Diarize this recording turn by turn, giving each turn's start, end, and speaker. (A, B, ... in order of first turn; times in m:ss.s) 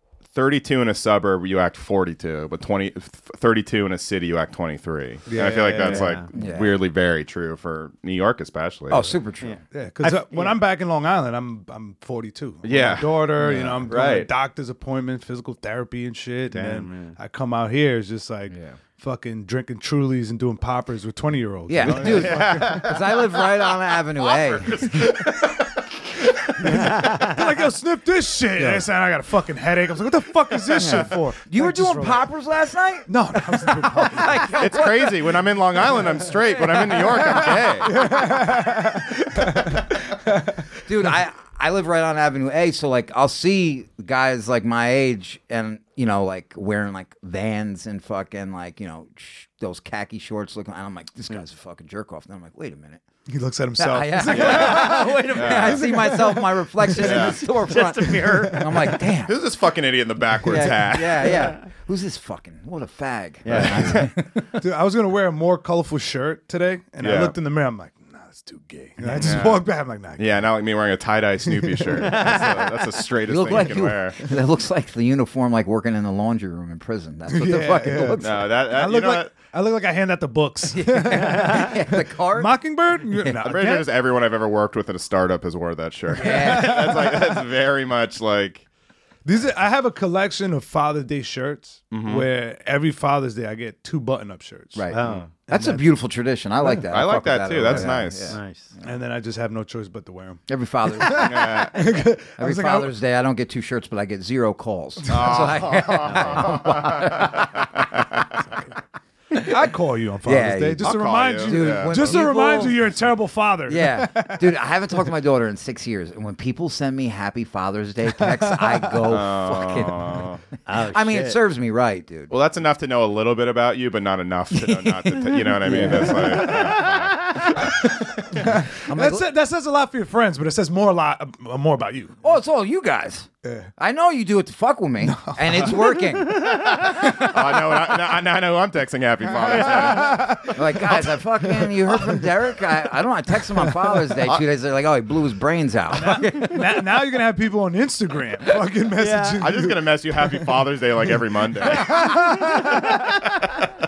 0:00.3-0:09.1 A
0:05.3-0:06.2 B
0:05.8-0:06.2 C
0:06.3-0:06.8 D
0:08.9-0:09.6 D
0:09.4-0:10.6 C
0:09.7-0:22.8 B
0:12.6-0:13.3 A
0:13.4-0:13.8 C
0:13.4-0:13.8 D
0:13.9-0:14.3 A
0:16.5-0:17.2 C
0:18.5-0:18.8 D
0:21.7-0:25.1 D
0:21.8-0:26.8 A
0:26.6-0:32.3 B
0:26.9-0:27.3 C
0:28.6-0:28.8 D
0:30.7-0:35.4 D
0:33.1-0:34.5 B
0:34.5-0:38.1 A
0:36.3-0:37.4 D
0:37.2-0:40.6 B
0:37.9-0:38.4 D
0:40.8-0:53.0 D
0:53.3-0:55.1 B
0:53.8-0:59.4 D
0:54.2-0:56.1 C
0:54.3-0:55.8 A
0:55.6-0:57.3 B
0:57.0-0:57.4 A
0:57.5-0:59.0 C
0:58.2-0:58.8 B
0:59.2-1:01.5 A
1:00.4-1:04.6 D
1:01.2-1:01.6 C
1:03.4-1:04.1 C
1:03.5-1:04.1 A
1:04.6-1:10.4 B
1:07.0-1:07.3 A
1:09.2-1:09.6 A
1:10.2-1:14.2 A
1:11.5-1:12.3 B
1:12.0-1:12.8 C
1:13.2-1:18.5 D
1:17.3-1:23.9 B
1:18.2-1:19.3 A
1:20.7-1:22.5 D
1:21.1-1:21.7 C
1:23.4-1:28.6 A
1:26.2-1:26.9 D
1:26.2-1:27.4 B
1:29.2-1:34.8 B
1:31.9-1:32.3 A
1:34.7-1:38.4 D
1:34.9-1:35.3 C
1:35.0-1:35.3 A
1:35.5-1:35.8 B
1:36.9-1:38.4 A
1:38.3-1:38.7 C
1:38.8-1:42.9 B
1:40.5-1:47.9 D
1:41.1-1:41.7 A
1:45.1-1:48.6 A
1:46.0-1:46.7 C
1:49.3-1:54.6 B
1:50.2-1:53.0 D
1:50.8-1:52.2 A
1:53.6-2:02.3 D
1:58.2-1:59.0 B
1:59.1-2:00.4 A
2:00.7-2:01.4 C
2:02.3-2:07.6 A
2:04.5-2:06.5 D
2:05.6-2:07.6 C
2:05.8-2:06.5 B
2:07.6-2:12.2 B
2:08.3-2:09.3 D
2:12.2-2:17.2 D
2:15.0-2:16.0 B
2:16.8-2:20.2 A
2:19.5-2:22.3 B
2:20.5-2:26.8 D
2:23.5-2:24.0 B
2:25.9-2:30.6 B
2:29.0-2:29.4 C
2:29.4-2:32.1 A
2:31.6-2:33.2 B